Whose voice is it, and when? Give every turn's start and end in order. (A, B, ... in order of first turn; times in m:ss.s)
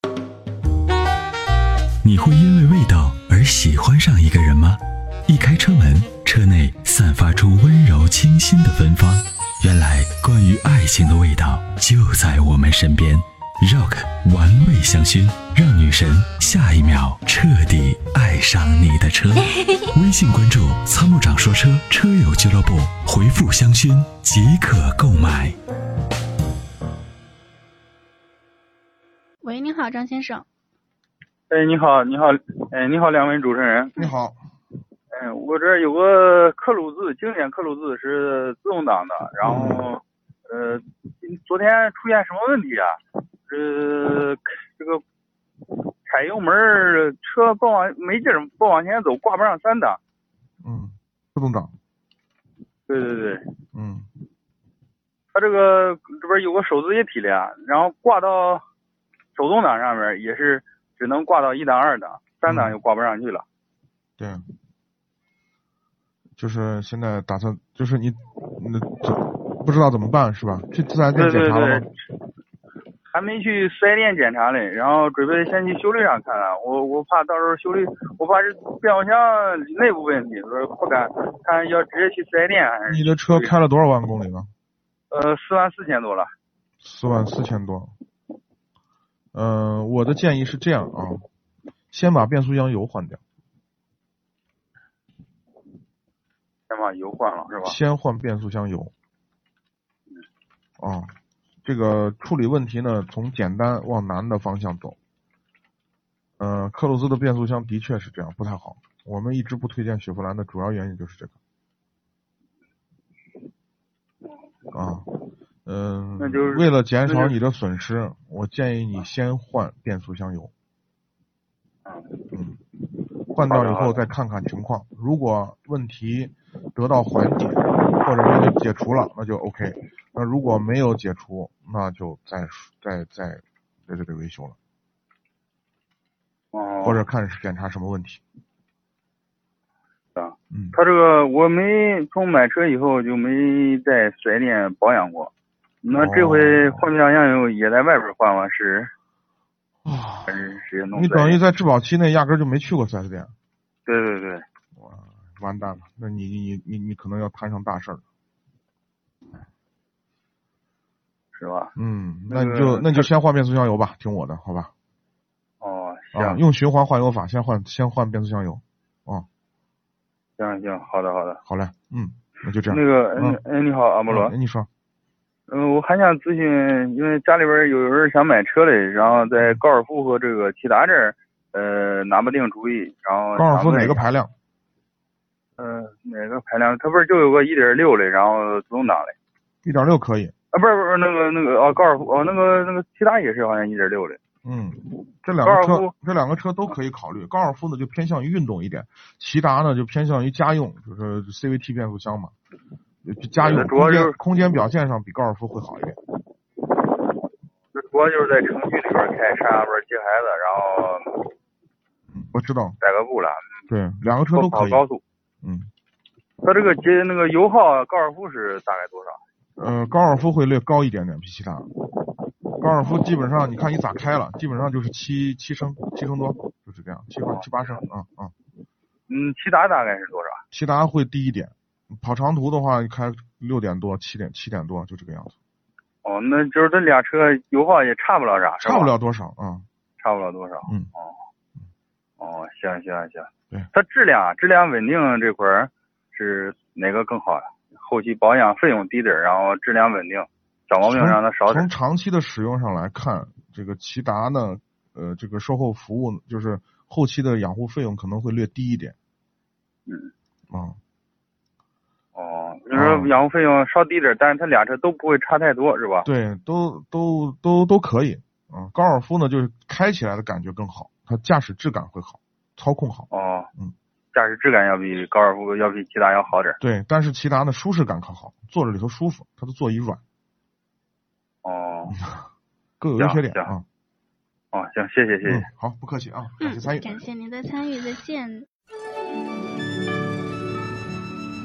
0:02.0-0:25.6 A
0:29.4-0:30.5 B
0:31.5-0:33.9 C
0:34.0-0:34.4 D
0:35.1-0:45.0 C
0:39.4-0:39.9 D
0:46.1-0:50.0 C
0:50.6-0:51.7 D
0:52.9-0:53.5 C
0:53.7-0:54.1 D
0:55.3-0:58.6 C
0:59.4-1:03.4 C
1:02.5-1:02.8 D
1:04.2-1:04.4 D
1:06.4-1:11.9 D
1:11.1-1:11.9 C
1:13.1-1:23.6 C
1:22.9-1:24.5 D
1:25.1-1:26.3 C
1:26.8-1:27.9 D
1:29.3-1:31.2 D
1:31.9-1:33.2 D
1:36.7-1:37.8 C
1:37.6-1:38.9 D
1:40.8-1:41.1 D
1:41.6-1:45.0 D
1:46.4-1:51.4 D
1:54.7-1:55.1 D
1:55.6-2:00.5 D
1:56.2-1:57.4 C
2:01.8-2:02.2 C
2:02.3-2:02.6 D
2:03.4-2:14.6 D
2:03.5-2:04.0 C
2:16.5-2:17.0 C
2:16.8-2:18.2 D
2:20.2-2:25.3 C
2:20.5-2:20.8 D
2:25.8-2:28.9 C
2:26.0-2:26.9 D
2:29.9-2:30.4 D
2:30.3-2:31.4 C
2:30.9-2:33.3 D
2:33.9-2:34.4 C
2:34.8-2:38.0 D
2:41.4-2:41.7 C
2:41.8-2:44.7 D
2:42.3-2:43.1 C
2:45.6-2:46.4 C
2:46.1-2:49.3 D
2:50.4-2:51.4 C
2:51.4-2:53.4 D
2:52.7-2:54.3 C
2:54.1-2:54.7 D
2:55.5-3:04.0 C
3:03.4-3:04.3 D
3:05.6-3:09.2 C
3:09.6-3:10.3 D
3:10.5-3:14.2 C
3:14.4-3:22.3 D
3:15.4-3:15.9 C
3:23.0-3:26.0 D
3:23.4-3:24.2 C
3:27.7-3:31.3 C
3:32.1-3:32.8 D
3:32.8-3:33.5 C
3:33.7-3:34.8 D
3:34.3-3:35.0 C
3:35.4-3:35.7 D
3:36.4-3:39.2 C
3:39.6-3:41.7 D
3:42.6-3:48.3 D
3:47.3-3:47.8 C
3:49.1-3:50.4 C
3:50.5-3:55.3 D
3:56.0-3:58.9 C
3:58.6-3:59.6 D
4:00.0-4:01.2 C
4:02.2-4:11.7 C
4:10.8-4:19.0 D
4:20.5-4:20.8 D
4:22.2-4:26.1 C
4:22.7-4:23.1 D
4:26.0-4:33.7 D
4:33.1-4:33.5 C
4:34.1-4:36.6 C
4:36.6-4:40.0 D
4:41.4-4:42.0 C
4:41.9-4:42.2 D
4:42.8-4:43.6 D
4:43.0-4:43.5 C
4:44.5-4:45.4 C
4:45.2-4:47.0 D
4:46.4-4:48.5 B